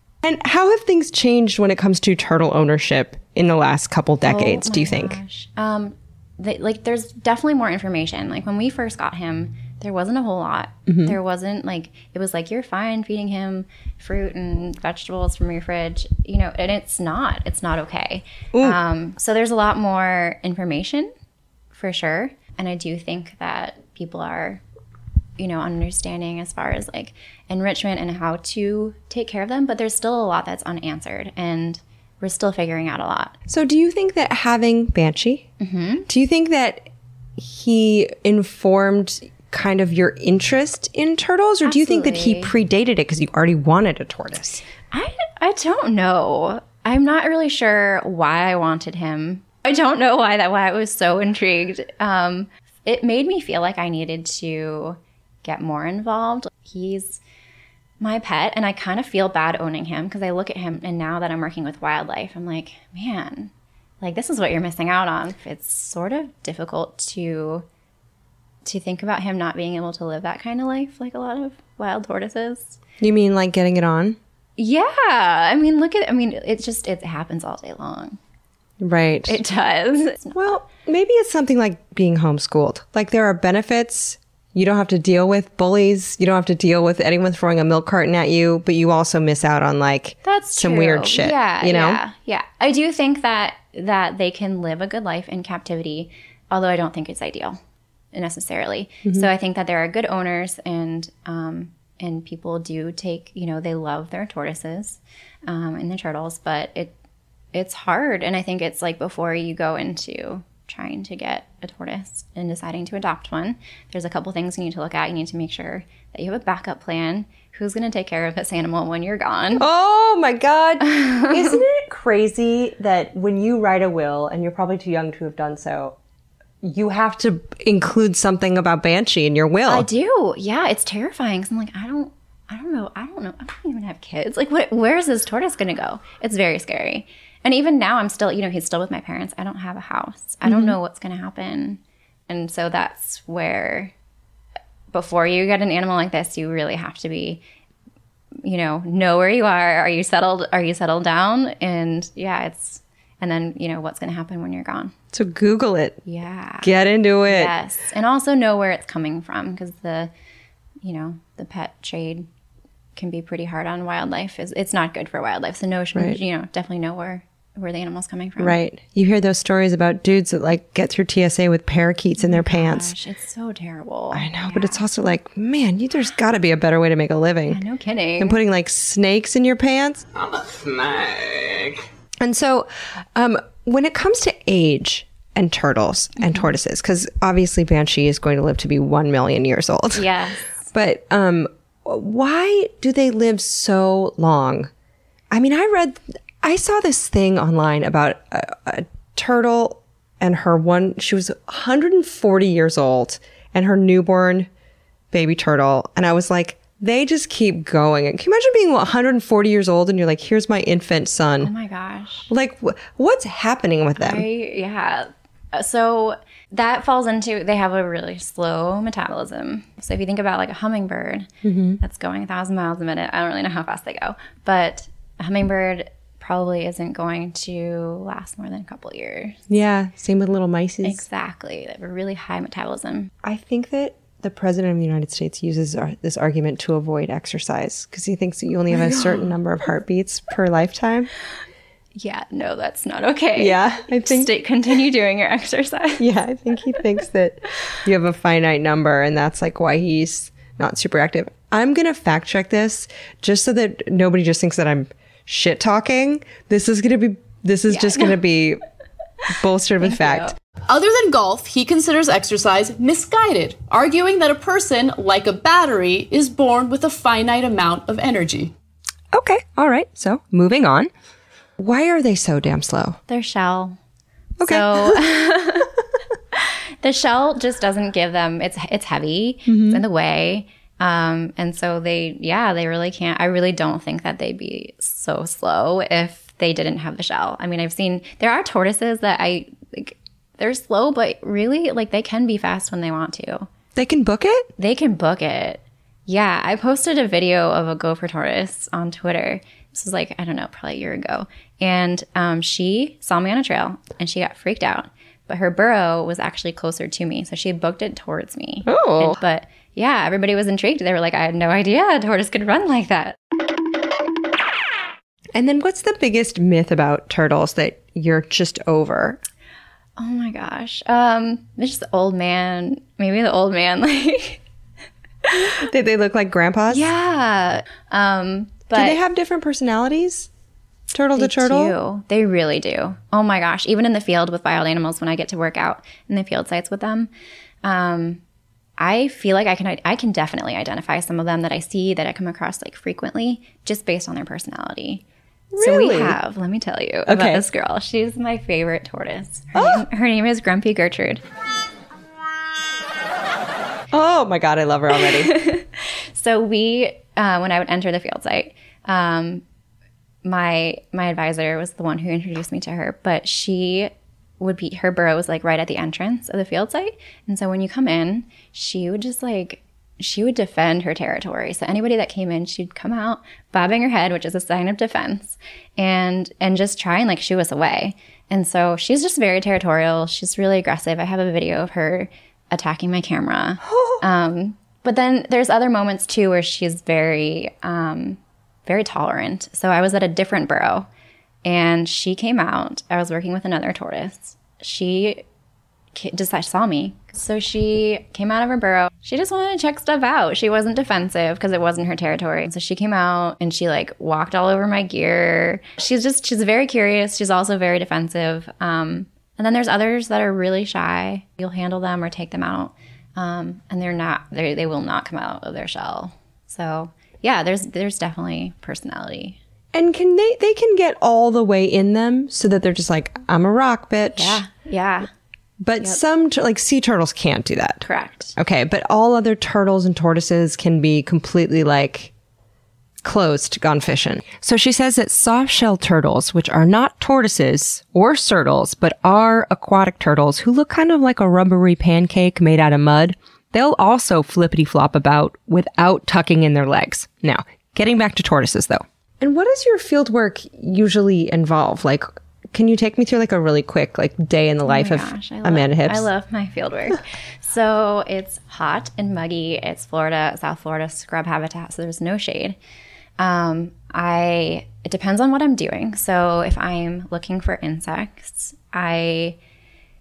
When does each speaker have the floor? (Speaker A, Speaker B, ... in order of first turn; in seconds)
Speaker A: 0.2-5.2, 10.9-11.2, 33.5-35.5, 36.1-44.6, 73.0-74.2, 78.8-79.4, 80.3-92.0, 119.6-126.0, 126.6-129.9, 140.4-140.8, 155.1-156.0, 156.6-157.5, 165.9-166.2, 168.4-172.9, 174.1-177.6, 178.2-190.1, 190.7-194.7, 195.3-204.5, 205.1-211.5, 212.3-214.2, 221.4-221.8, 229.5-231.0, 233.2-241.1, 243.3-244.3, 246.0-258.6, 259.3-260.3, 269.1-270.9, 271.6-273.0, 274.4-275.0, 279.5-279.8, 293.8-294.5, 308.6-309.2, 315.3-319.2, 325.4-326.9, 328.7-330.3, 330.9-331.7, 345.5-346.2, 347.1-347.4, 349.5-349.8, 353.9-355.3, 383.6-384.0, 419.7-424.4, 425.6-432.1, 433.0-456.1
Speaker B: 4.2-21.1, 21.7-24.6, 25.4-33.4, 35.6-36.1, 41.6-42.5, 44.9-57.2, 58.0-67.7, 68.6-72.8, 74.6-78.2, 79.3-80.6, 90.2-97.6, 98.1-107.0, 107.5-119.6, 120.8-121.6, 129.7-143.9, 144.9-147.4, 148.4-154.9, 156.0-156.7, 157.2-160.1, 160.8-162.3, 162.9-168.6, 172.2-174.8, 177.5-178.4, 186.2-186.5, 189.9-190.5, 211.4-212.3, 214.0-229.4, 230.8-233.1, 238.7-239.3, 241.9-246.1, 257.7-258.2, 259.8-260.3, 273.1-273.8, 274.4-275.7, 276.3-293.5, 294.6-313.2, 320.0-324.4, 325.2-325.5, 326.7-329.0, 331.1-337.1, 337.6-338.2, 338.8-345.0, 345.6-351.2, 354.9-359.4, 360.2-390.9, 391.4-395.2, 395.9-419.4, 424.1-425.1, 427.8-428.3, 454.6-462.6, 463.2-469.4
Speaker C: 260.7-268.5